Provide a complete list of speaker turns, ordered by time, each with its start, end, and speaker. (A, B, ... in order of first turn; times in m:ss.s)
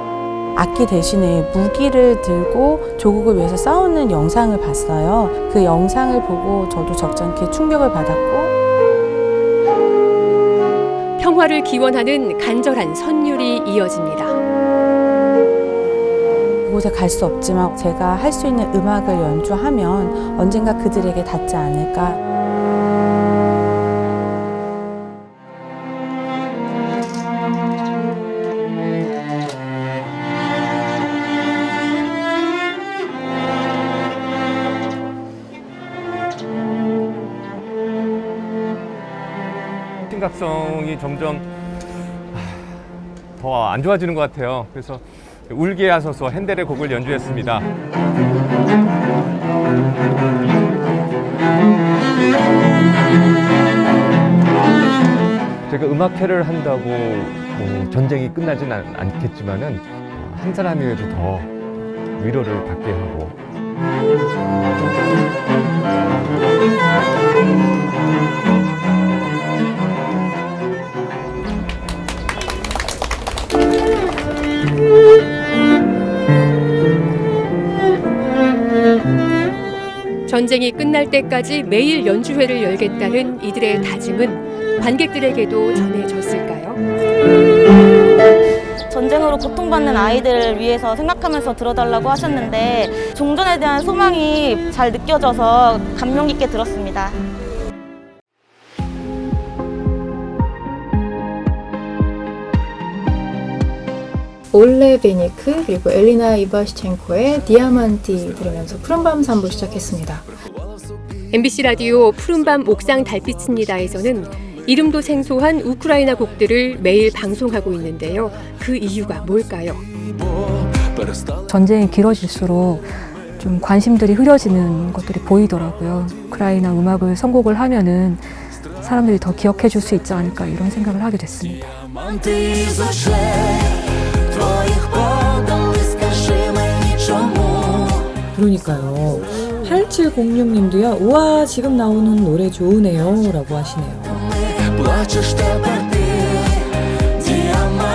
0:00.6-0:08.5 A
0:11.2-0:14.4 B
0:16.7-0:22.2 A
0:40.1-0:41.5 C
0:42.3-0:42.8 C
0:43.4-0:47.7 C
0:55.7-1:01.5 C
1:02.2-1:03.4 C
1:20.3-1:26.8 B
1:28.9-1:37.2 D
1:44.5-1:50.2 E
1:51.3-1:59.8 B
2:01.5-2:08.3 F
2:08.8-2:11.7 F
2:18.3-2:24.3 G